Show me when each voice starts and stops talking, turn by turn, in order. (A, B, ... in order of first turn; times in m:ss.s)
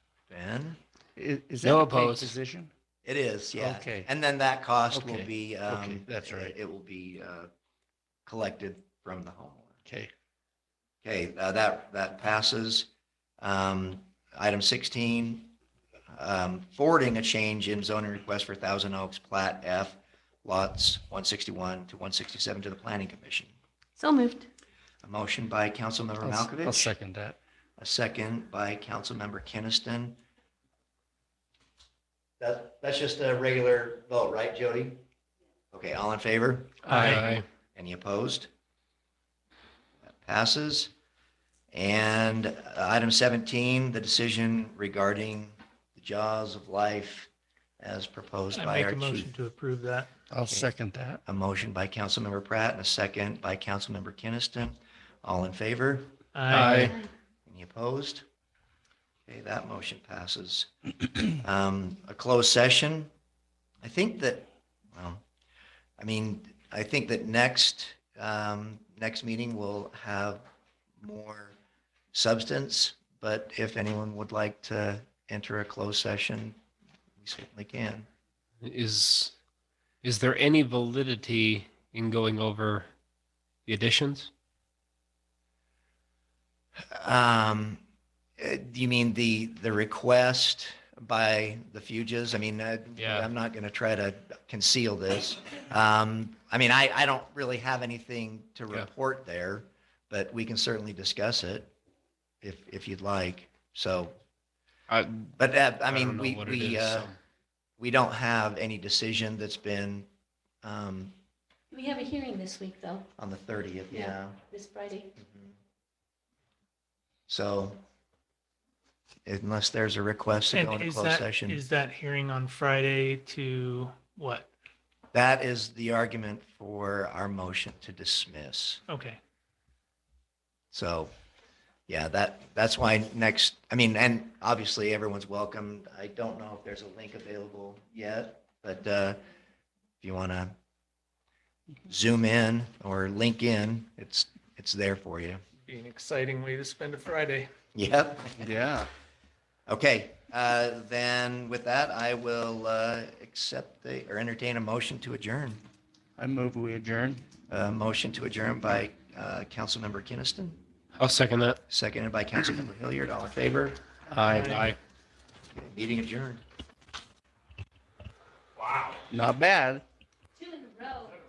0:00.3-0:00.8 A
0:01.2-0:02.7 B
0:01.6-0:02.3 C
0:03.0-0:07.5 A
0:03.6-0:04.1 B
0:04.9-0:06.5 B
0:08.3-0:09.7 A
0:09.9-0:10.1 B
0:11.0-0:12.9 A
0:13.4-0:15.6 A
0:16.1-0:23.5 A
0:24.0-0:24.5 D
0:25.0-0:26.9 A
0:26.2-0:27.4 B
0:27.8-0:30.2 A
0:32.4-0:35.0 A
0:35.7-0:38.5 A
0:36.9-0:37.4 C
0:36.9-0:37.4 E
0:40.2-0:40.9 A
0:41.7-0:49.3 A
0:48.5-0:50.1 E
0:50.3-0:51.2 B
0:51.2-0:56.9 A
0:56.3-0:56.9 E
0:56.5-0:57.0 C
0:56.8-0:57.1 D
0:57.5-0:58.2 A
0:59.3-1:00.7 A
1:01.4-1:03.1 A
1:03.8-1:05.2 A
1:06.0-1:10.5 A
1:11.0-1:11.6 A
1:12.1-1:16.6 A
1:17.2-1:18.1 A
1:18.6-1:19.4 C
1:20.0-1:22.9 C
1:23.7-1:24.3 C
1:26.9-1:27.8 A
1:28.4-1:41.7 A
1:33.0-1:33.3 C
1:42.4-1:44.2 A
1:44.9-1:47.2 C
1:45.4-1:47.1 A
1:47.8-1:50.1 A
1:50.6-1:51.2 A
1:51.7-1:53.1 D
1:53.2-1:54.4 A
1:53.9-1:55.1 D
1:55.2-1:55.5 A
1:57.3-1:57.8 A
1:59.3-2:01.6 A
2:00.5-2:04.5 E
2:05.1-2:08.8 A
2:08.9-2:09.2 E
2:10.7-2:11.1 A
2:11.9-2:19.2 A
2:20.0-2:20.6 A
2:21.9-2:25.4 A
2:25.7-2:27.5 E
2:27.8-2:28.5 A
2:28.4-2:28.9 B
2:29.7-2:35.6 A
2:36.2-2:37.2 B
2:37.5-2:40.6 A
2:41.0-2:41.6 C
2:41.7-2:43.8 A
2:44.1-2:44.6 B
2:44.2-2:44.8 C
2:44.3-2:44.7 E
2:45.5-2:46.4 A
2:49.1-2:49.8 B
2:50.4-2:51.2 D